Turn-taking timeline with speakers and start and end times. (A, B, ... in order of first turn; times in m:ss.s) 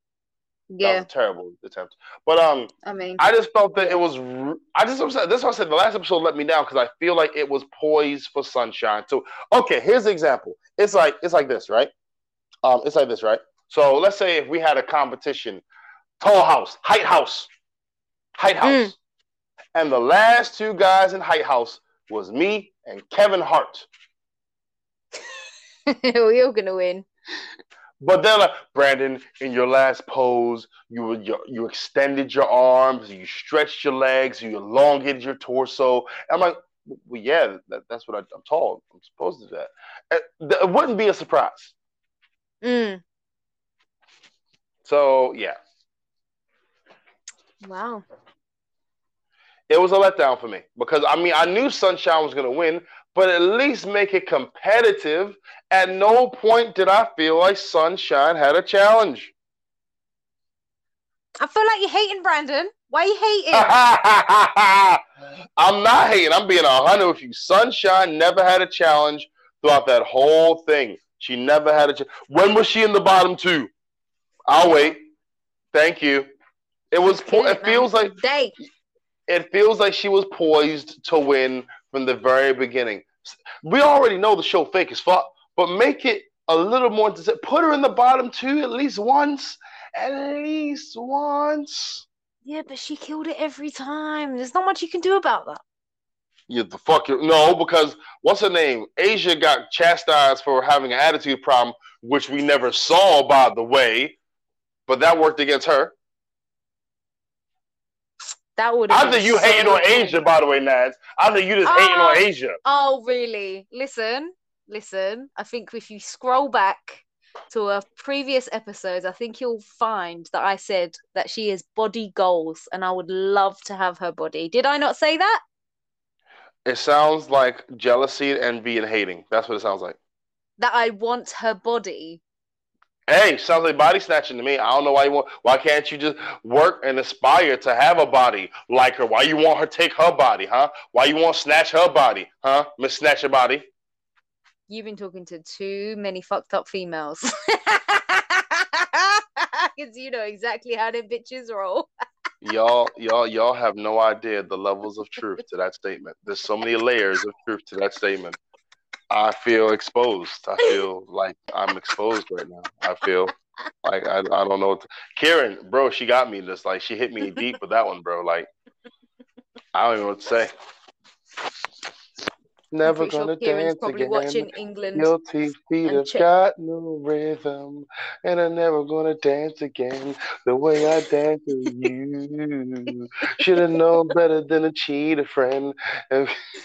0:00.7-0:01.1 A
0:00.8-0:11.9 B
0:02.8-0:03.2 A
0:03.7-0:04.0 A
0:12.6-0:15.6 B
0:16.2-0:17.5 B
0:18.4-0:18.9 B
0:18.6-0:18.9 A
0:19.7-0:23.9 B
0:25.9-0:27.0 A
0:28.0-0:41.7 B
0:42.6-0:43.0 A
0:44.8-0:45.6 B
0:47.6-0:48.0 A
0:49.7-0:59.3 B
1:01.4-1:03.7 A
1:03.5-1:05.0 B
1:05.6-1:13.7 B
1:14.5-1:15.0 B
1:14.6-1:14.9 A
1:15.7-1:16.3 B
1:16.9-1:18.1 B
1:17.1-1:18.5 A
1:19.3-1:32.0 B
1:32.4-1:35.6 A
1:36.5-1:44.2 B
1:44.9-1:45.9 B
1:48.6-1:50.2 A
1:48.9-1:52.6 B
1:51.6-2:05.4 A
2:06.6-2:10.0 B
2:10.6-2:12.2 A
2:13.1-2:23.6 B
2:24.7-2:31.9 A
2:32.4-2:38.4 B
2:39.1-2:43.3 B
2:43.8-2:48.5 B
2:49.7-2:50.5 B
2:52.7-3:06.3 B
2:52.8-2:55.1 A
2:55.8-2:56.2 A